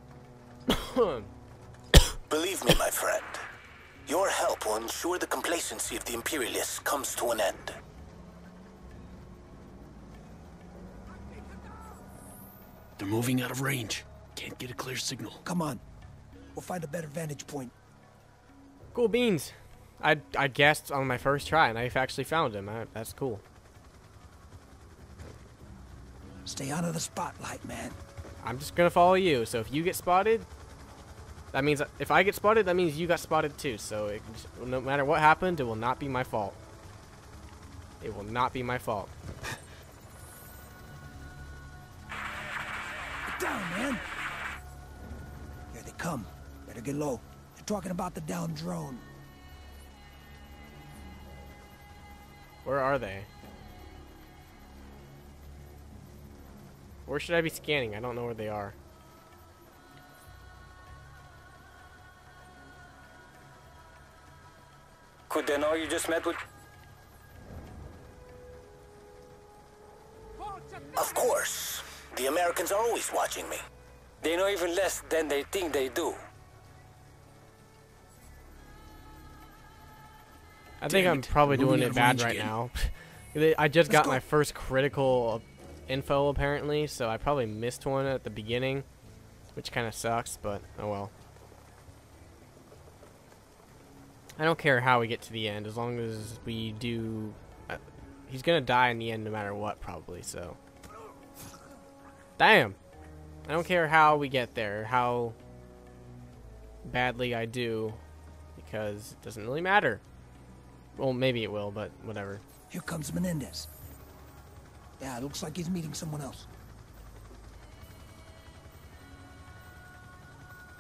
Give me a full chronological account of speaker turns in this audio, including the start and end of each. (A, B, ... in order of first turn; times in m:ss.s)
0:00.7-0:01.3 A
0:02.3-0:03.4 B
0:04.1-0:07.7 B
0:13.0-0:15.4 C
0:15.4-0:15.8 D
0:16.5-0:17.7 D
0:18.9-0:23.4 A
0:26.4-0:28.0 D
0:28.4-0:30.5 A
0:31.5-0:36.6 A
0:38.0-0:39.1 A
0:43.3-0:44.0 D
0:45.7-0:49.0 D
0:52.6-0:53.3 A
0:57.0-0:58.8 A
1:05.3-1:06.4 E
1:11.0-1:13.6 B
1:14.2-1:16.2 E
1:20.8-1:28.8 A
1:20.8-1:22.5 C
1:23.9-1:24.2 D
1:29.5-1:31.1 A
1:34.4-1:40.6 A
1:42.4-1:42.8 A
1:43.4-1:45.4 A
1:46.8-1:48.0 A
1:48.6-1:50.0 A
1:51.0-1:52.4 A
1:52.7-1:53.7 D
1:55.0-1:56.5 D